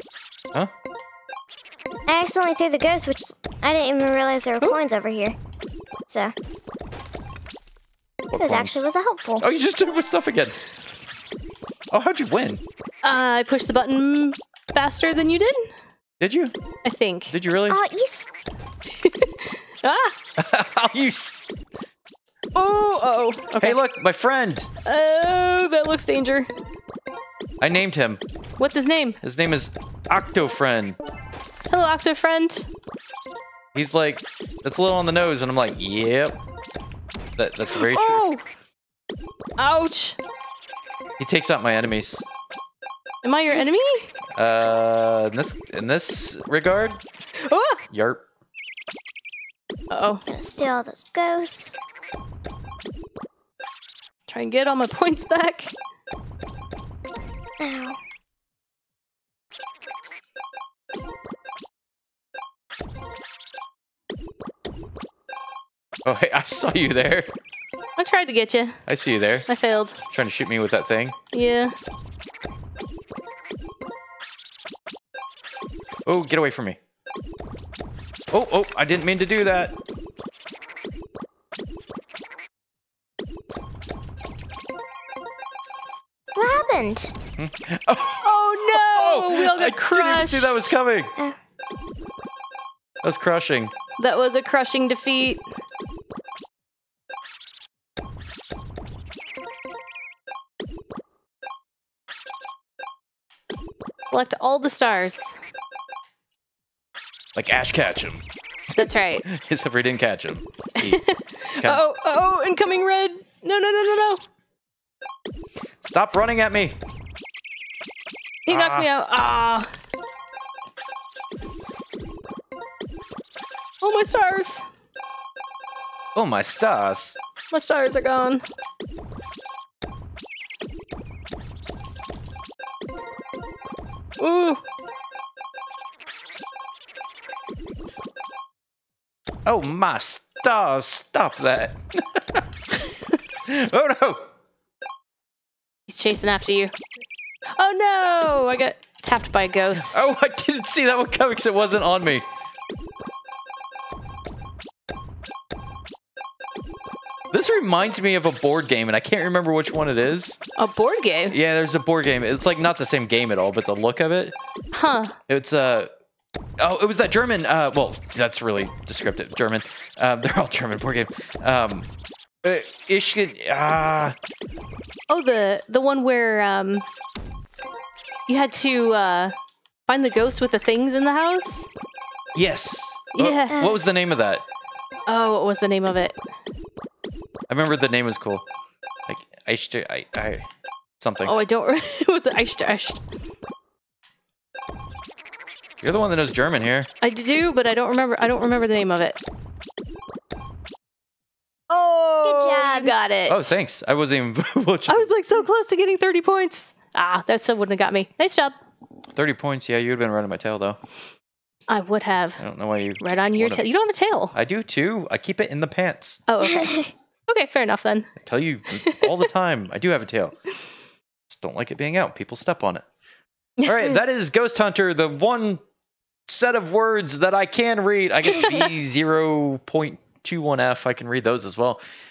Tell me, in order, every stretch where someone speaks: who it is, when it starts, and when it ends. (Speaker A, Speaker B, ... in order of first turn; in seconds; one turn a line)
Speaker A: 2.1-5.3
Speaker A: 6.1-6.3
Speaker B: 8.3-8.8
Speaker A: 8.4-9.4
Speaker B: 9.4-10.6
Speaker B: 11.9-12.6
Speaker C: 13.0-15.7
Speaker B: 16.2-16.5
Speaker C: 16.8-17.3
Speaker B: 17.3-17.8
Speaker A: 17.7-18.3
Speaker C: 19.0-20.1
Speaker B: 20.4-21.4
Speaker C: 22.5-23.8
Speaker B: 23.6-24.7
Speaker C: 24.8-26.5
Speaker B: 27.6-28.2
Speaker C: 28.6-29.2
Speaker B: 29.2-31.0
Speaker C: 31.7-32.7
Speaker B: 33.7-36.4
Speaker B: 37.4-38.2
Speaker C: 37.7-38.4
Speaker C: 39.6-40.2
Speaker B: 41.2-42.2
Speaker C: 43.2-44.1
Speaker B: 44.4-47.0
Speaker C: 47.4-47.8
Speaker B: 47.9-48.2
Speaker C: 49.9-50.2
Speaker A: 50.3-51.8
Speaker C: 54.3-55.7
Speaker A: 57.6-58.0
Speaker B: 66.0-67.3
Speaker C: 68.0-68.8
Speaker B: 68.8-69.5
Speaker C: 69.5-70.0
Speaker B: 70.1-71.2
Speaker C: 71.3-71.7
Speaker B: 76.0-76.8
Speaker B: 78.3-79.8
Speaker A: 86.3-87.1
Speaker B: 87.4-91.1
Speaker C: 88.2-90.7
Speaker B: 93.0-93.7
Speaker C: 94.0-95.4
Speaker C: 104.1-105.4
Speaker B: 107.3-108.2
Speaker C: 108.8-109.2
Speaker B: 109.3-111.0
Speaker C: 110.8-114.2
Speaker B: 115.8-116.8
Speaker C: 118.5-119.7
Speaker B: 118.5-118.9
Speaker C: 123.8-124.6
Speaker B: 126.1-127.2
Speaker C: 127.5-128.4
Speaker C: 134.2-134.6
Speaker B: 139.4-142.4
Speaker B: 143.5-144.3
Speaker C: 145.9-146.7
Speaker C: 147.6-150.1
Speaker B: 149.8-152.2
Speaker B: 157.3-160.4
Speaker C: 160.6-161.4
Speaker B: 161.3-164.3
Speaker C: 164.7-165.2
Speaker B: 165.3-165.9
Speaker B: 166.6-171.9
Speaker B: 172.4-174.2
Speaker C: 175.1-176.8
Speaker C: 178.3-179.3
Speaker C: 179.9-181.7
Speaker B: 182.3-184.4
Speaker C: 183.1-183.7
Speaker A: 183.5-183.8
Speaker C: 185.1-186.2
Speaker B: 187.5-188.4
Speaker B: 189.1-190.5
Speaker B: 191.0-191.3
Speaker C: 191.2-193.0
Speaker B: 195.8-196.9
Speaker C: 197.0-199.2
Speaker C: 201.7-203.6
Speaker A: 202.2-202.9
Speaker B: 203.3-205.1
Speaker C: 204.9-208.5
Speaker B: 209.1-210.8
Speaker C: 211.7-212.4
Speaker B: 212.4-213.7
Speaker C: 213.0-214.3
Speaker B: 214.3-216.2
Speaker C: 216.3-218.2
Speaker A: 216.4-216.9
Speaker B: 218.2-220.3
Speaker C: 218.8-219.2
Speaker B: 221.3-222.8
Speaker B: 223.6-225.6
Speaker B: 226.3-231.8
Speaker C: 228.3-228.7